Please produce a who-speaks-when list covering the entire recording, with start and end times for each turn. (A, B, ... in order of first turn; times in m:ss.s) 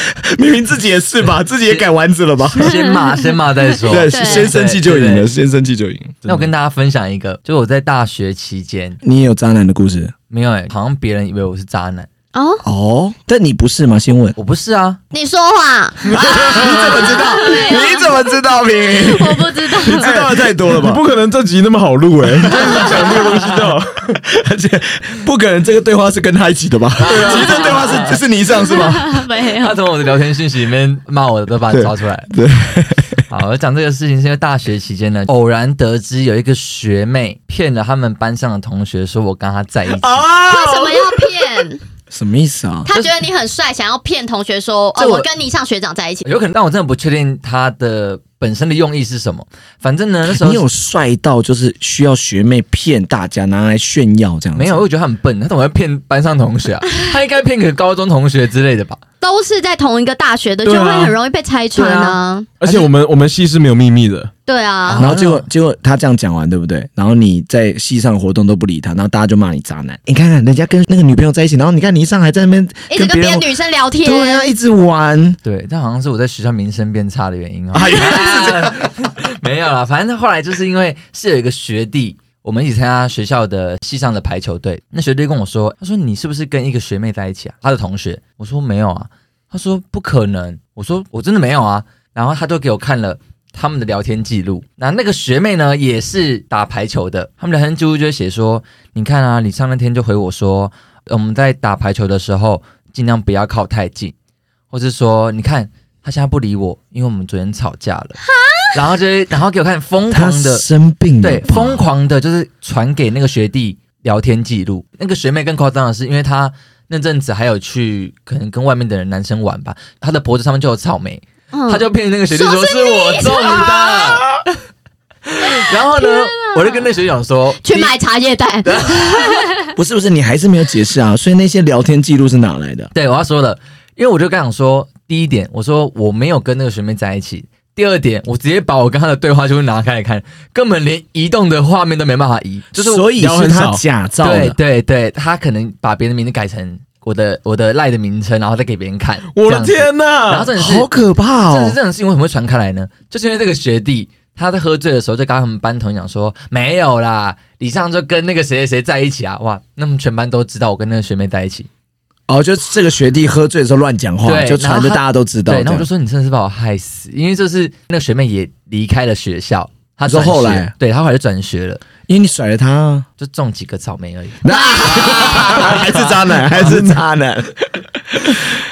0:00.2-0:02.8 A
0:02.5-0:05.3 B
0:03.8-0:06.2 A
0:04.0-0:04.5 C
0:06.2-0:06.5 D
0:06.3-0:09.0 B
0:09.0-0:10.1 A
0:10.3-0:12.1 B
0:12.3-0:12.6 C
0:12.6-0:14.4 A
0:14.4-0:15.0 B
0:15.1-0:18.3 C
0:16.1-0:21.0 A
0:16.2-0:16.9 D
0:18.8-0:20.2 C
0:19.9-0:24.2 D
0:22.6-0:23.4 B
0:24.2-0:29.2 A
0:27.0-0:28.2 B
0:27.0-0:27.7 D
0:28.6-0:29.7 C
0:29.4-0:32.3 B
0:31.7-0:33.2 A
0:33.3-0:40.2 B
0:39.9-0:41.6 D
0:40.4-0:41.8 C
0:42.1-0:42.9 A
0:42.8-0:46.3 C
0:45.0-0:45.3 B
0:46.2-0:50.6 B
0:50.3-0:54.8 A
0:54.5-0:59.0 B
0:59.2-1:02.5 C
1:00.6-1:01.2 D
1:01.7-1:02.2 B
1:02.6-1:04.3 D
1:04.4-1:05.0 C
1:04.8-1:05.5 B
1:05.0-1:13.5 A
1:12.9-1:14.5 C
1:14.0-1:15.4 A
1:15.4-1:44.1 B
1:17.7-1:18.8 A
1:44.7-1:48.2 B
1:48.4-1:48.6 C
1:48.7-1:50.6 B
1:50.1-1:51.8 A
1:51.2-2:04.4 B
2:01.5-2:04.2 C
2:05.3-2:08.0 B
2:05.6-2:06.8 C
2:07.6-2:09.6 C
2:08.6-2:09.5 B
2:09.8-2:12.9 A
2:12.9-2:23.0 B
2:22.7-2:24.6 A
2:23.2-2:23.8 D
2:24.2-2:41.7 B
2:29.3-2:30.5 D
2:30.5-2:31.8 A
2:42.3-2:45.9 A
2:44.2-2:51.8 B
2:50.0-2:50.7 A
2:52.0-2:53.1 A
2:53.2-2:56.2 B
2:54.4-2:58.5 A
2:54.4-2:55.6 C
2:56.6-2:57.0 D